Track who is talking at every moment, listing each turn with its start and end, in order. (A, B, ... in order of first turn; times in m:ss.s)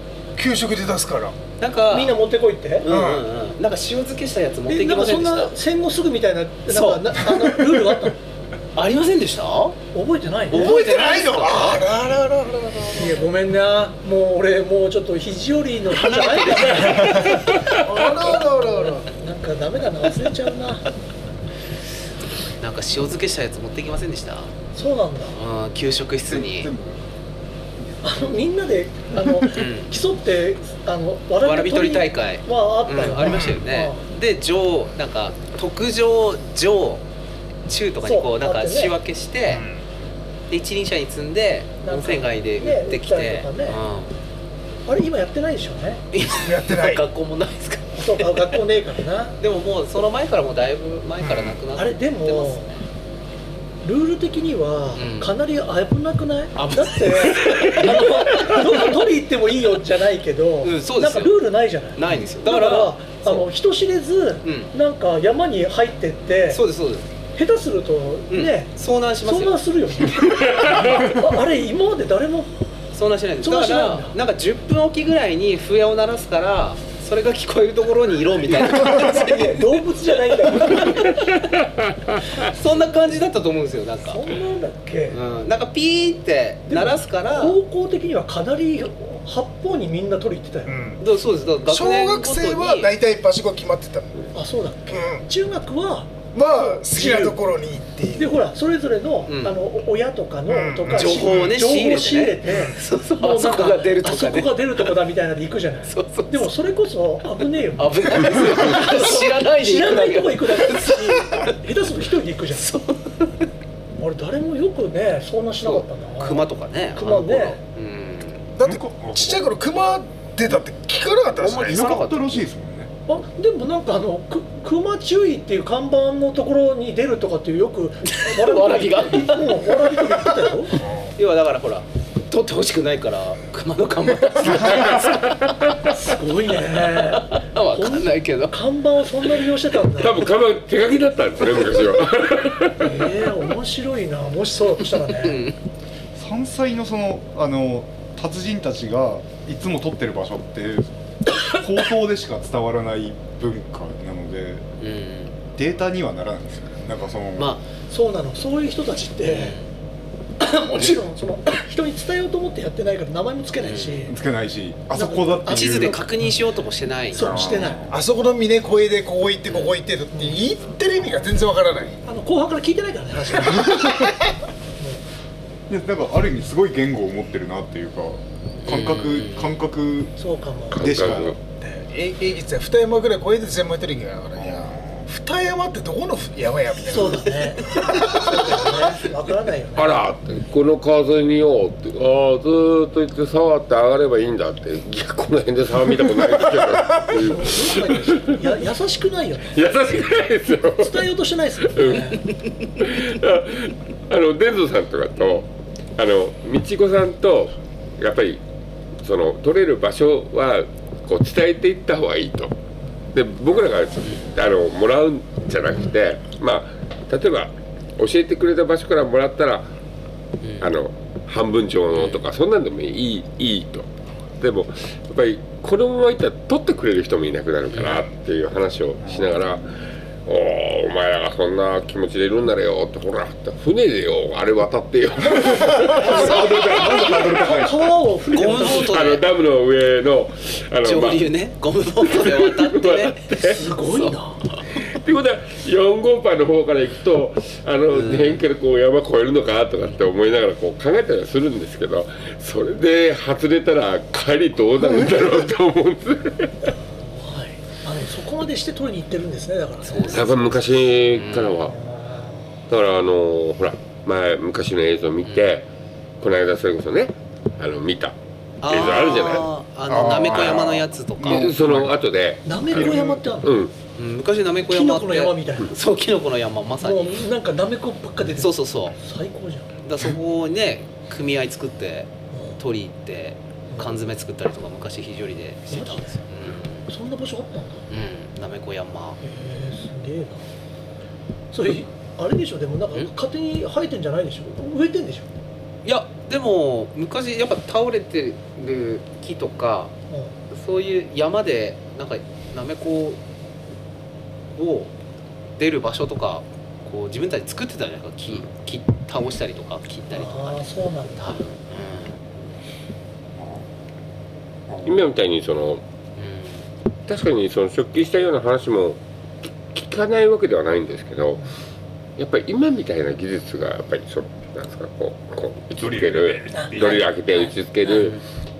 0:00.4-0:01.4 A
0:01.6-0:02.2 B
0:01.9-0:02.9 C
0:02.8-0:05.6 B
0:02.9-0:03.3 A
0:04.7-0:08.2 C
0:06.7-0:07.3 B
0:08.8-0:09.8 B
0:09.9-0:10.8 C
0:10.5-0:11.9 B
0:10.5-0:13.3 A
0:12.9-0:20.9 C
0:15.9-0:17.8 B
0:16.9-0:19.1 A
0:22.6-0:24.5 B
0:24.7-0:25.4 C
0:25.3-0:26.7 B
0:26.3-0:27.1 D
0:28.0-0:34.1 C
0:29.5-0:29.9 B
0:31.4-0:37.1 B
0:33.1-0:33.7 A
0:37.7-0:39.7 B
0:38.0-0:39.0 C
0:39.5-0:39.8 A
0:40.5-0:44.2 B
0:41.8-0:43.8 C
0:44.9-0:46.0 C
0:46.1-0:48.6 B
0:46.4-0:47.0 A
0:47.9-0:49.4 C
0:49.4-0:52.6 B
0:51.2-0:51.6 A
0:51.8-0:52.8 C
0:53.8-1:06.6 C
0:55.0-0:55.3 B
0:56.6-0:59.0 B
1:00.6-1:03.5 B
1:04.4-1:04.7 B
1:06.5-1:07.1 B
1:07.4-1:12.5 C
1:08.3-1:09.6 B
1:12.9-1:19.8 B
1:13.4-1:14.2 C
1:18.8-1:21.4 C
1:22.4-1:24.3 B
1:24.0-1:25.2 C
1:25.1-1:27.6 B
1:26.7-1:30.8 C
1:30.7-1:31.0 A
1:31.0-1:32.9 B
1:31.6-1:34.3 A
1:34.3-1:37.4 C
1:34.9-1:35.3 A
1:36.3-1:38.4 A
1:38.2-1:42.7 C
1:39.3-1:39.6 B
1:40.5-1:41.6 A
1:40.9-1:44.9 B
1:42.4-1:42.8 A
1:43.2-1:48.0 C
1:45.9-1:46.5 B
1:47.6-1:51.6 B
1:48.5-1:52.7 C
1:52.5-1:53.5 B
1:54.0-1:57.6 C
1:55.6-1:58.5 B
1:58.6-2:02.0 A
1:58.6-1:59.6 D
2:01.3-2:02.5 B
2:01.6-2:02.9 D
2:03.1-2:10.8 C
2:08.1-2:10.3 B
2:10.7-2:11.1 A
2:11.2-2:15.3 B
2:14.4-2:15.1 D
2:15.4-2:15.9 E
2:15.9-2:20.3 C
2:16.6-2:19.6 B
2:20.0-2:23.1 E
2:22.8-2:25.5 C
2:25.0-2:25.6 B
2:26.2-2:34.6 D
2:34.8-2:35.3 B
2:35.6-2:37.6 D
2:37.4-2:37.6 B
2:37.8-2:39.6 C
2:39.2-2:39.7 B
2:40.4-2:44.2 C
2:43.6-2:44.1 B
2:44.1-2:46.1 D
2:44.9-2:46.4 C
2:45.5-2:47.5 B
2:47.1-2:47.9 C
2:47.2-2:47.9 D
2:47.9-2:52.0 A
2:49.5-2:49.8 B
2:52.1-2:54.1 C
2:53.7-2:54.1 A
2:55.7-3:00.2 D
2:58.6-2:59.6 B
3:00.2-3:01.0 C
3:00.7-3:01.4 E
3:00.8-3:01.4 D
3:01.6-3:08.8 A
3:04.4-3:05.0 D
3:06.8-3:10.1 C
3:09.8-3:18.4 E
3:17.1-3:19.9 C
3:19.5-3:21.0 E
3:20.6-3:22.3 C
3:21.6-3:28.4 E
3:29.0-3:32.5 E
3:33.1-3:39.7 E
3:40.4-3:40.7 B
3:40.6-3:43.9 E
3:41.9-3:42.2 B
3:44.4-3:57.2 E
3:47.7-3:48.1 B
3:49.0-3:49.8 D
3:55.3-3:58.0 D
3:55.8-3:59.0 C
3:58.3-3:59.2 B
3:58.4-4:01.3 E
4:00.8-4:04.6 B
4:02.0-4:03.8 E
4:03.4-4:04.4 C
4:04.7-4:16.5 E
4:07.9-4:08.4 B
4:16.8-4:20.8 C
4:19.8-4:20.3 B
4:20.1-4:21.7 E
4:21.2-4:21.7 B
4:21.4-4:22.6 C
4:22.7-4:25.7 E
4:25.2-4:25.5 B
4:26.2-4:28.2 E
4:28.6-4:31.5 B
4:28.7-4:29.5 E
4:29.9-4:32.0 D
4:30.0-4:33.7 E
4:32.4-4:33.7 C
4:32.7-4:33.2 D
4:34.0-4:37.3 B
4:34.6-4:35.7 C
4:36.8-4:39.7 C
4:38.4-4:39.0 B
4:39.8-4:46.9 B
4:42.3-4:42.6 C
4:43.7-4:44.0 C
4:45.7-4:46.2 C
4:46.9-4:47.8 C
4:47.9-4:49.2 B
4:49.2-4:50.4 C
4:51.5-4:55.3 C
4:55.8-4:59.9 B
5:00.1-5:00.4 C
5:00.5-5:03.2 B
5:04.6-5:04.9 B
5:05.6-5:12.2 B
5:10.1-5:11.5 C
5:13.4-5:13.7 D
5:14.7-5:15.0 D
5:14.8-5:15.8 E
5:16.2-5:16.6 B
5:17.1-5:19.0 E
5:19.5-5:21.4 E
5:22.2-5:28.2 E
5:25.8-5:27.1 D
5:26.5-5:28.0 C
5:27.9-5:28.2 B